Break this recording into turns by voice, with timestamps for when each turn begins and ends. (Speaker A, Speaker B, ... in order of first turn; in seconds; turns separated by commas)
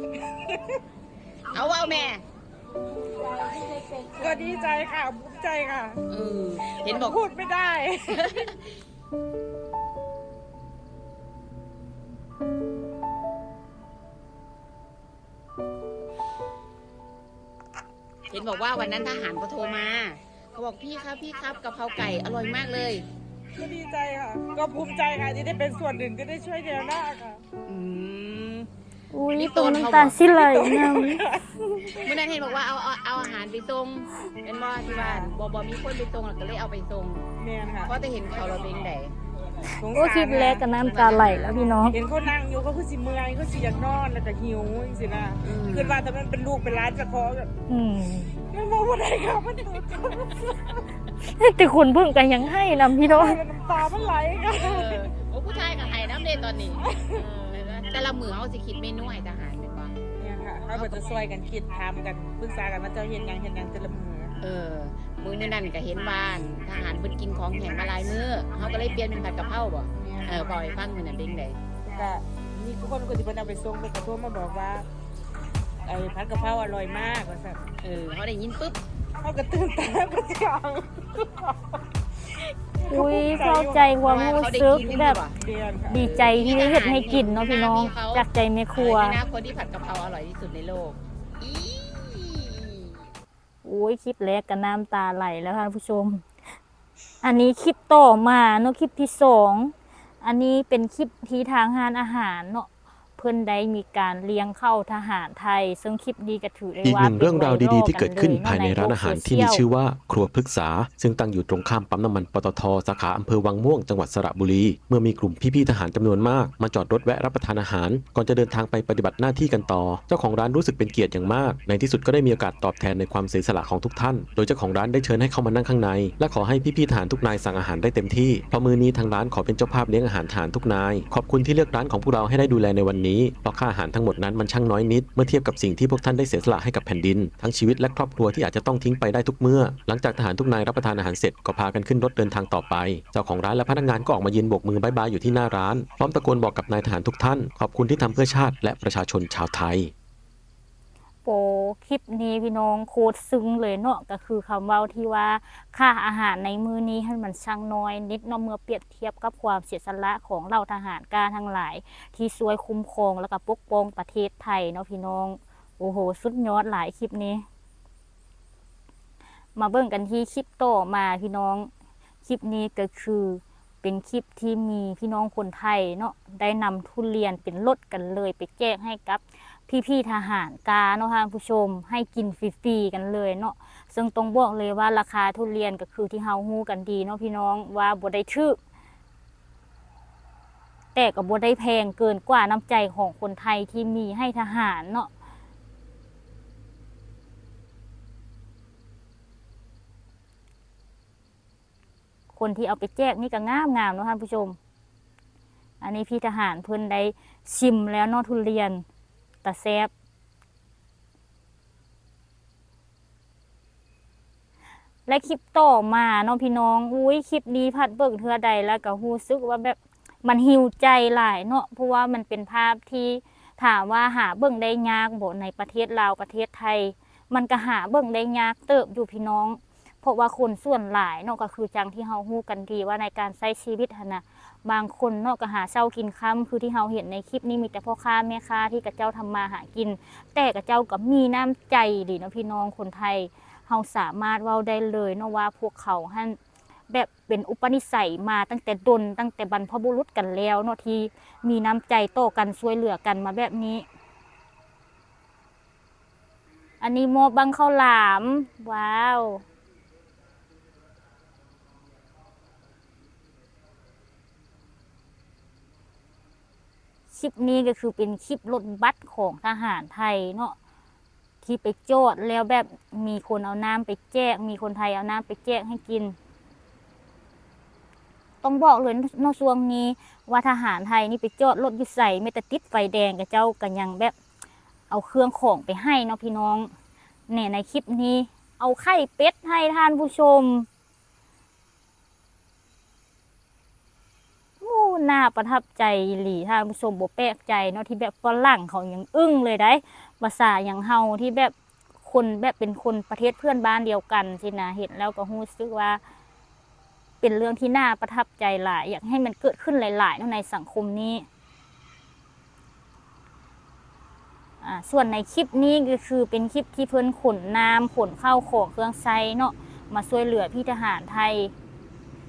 Speaker A: 0.2-0.8, Speaker B: 1.5-2.2, Speaker A: 3.3-6.0, Speaker B: 6.1-7.2, Speaker A: 6.6-8.5, Speaker B: 8.1-8.7, Speaker B: 18.3-23.1, Speaker A: 23.6-27.4, Speaker B: 27.6-28.7, Speaker C: 29.1-31.2, Speaker B: 29.3-30.2, Speaker A: 30.3-32.0, Speaker B: 32.0-37.2, Speaker A: 34.9-35.3, Speaker A: 37.4-37.9, Speaker B: 37.8-39.1, Speaker A: 39.6-47.5, Speaker C: 39.7-42.0, Speaker B: 40.8-41.6, Speaker B: 45.4-46.0, Speaker C: 47.7-48.3, Speaker A: 48.4-50.8, Speaker C: 51.2-53.4, Speaker A: 53.0-55.1, Speaker B: 54.5-60.0, Speaker A: 56.8-57.2, Speaker A: 60.2-64.3, Speaker B: 64.4-71.6, Speaker A: 70.0-70.4, Speaker A: 71.8-74.9, Speaker A: 75.8-77.6, Speaker B: 77.8-78.8, Speaker A: 79.2-81.6, Speaker A: 82.3-84.0, Speaker C: 82.9-85.2, Speaker B: 84.0-85.4, Speaker A: 85.4-86.0, Speaker C: 85.9-89.2, Speaker B: 85.9-93.0, Speaker C: 93.6-96.2, Speaker C: 97.2-109.6, Speaker D: 106.8-149.9, Speaker C: 151.2-167.4, Speaker C: 169.6-171.7, Speaker C: 172.2-188.6, Speaker C: 190.9-195.1, Speaker C: 202.3-204.6, Speaker C: 205.8-208.8, Speaker C: 209.4-209.9, Speaker C: 215.1-246.4, Speaker C: 246.9-253.8, Speaker C: 256.8-259.4, Speaker C: 267.1-270.6, Speaker C: 271.4-276.1, Speaker C: 278.4-284.1, Speaker C: 284.9-286.7, Speaker C: 287.3-290.7, Speaker C: 294.6-306.0, Speaker C: 307.2-311.2, Speaker C: 314.6-321.5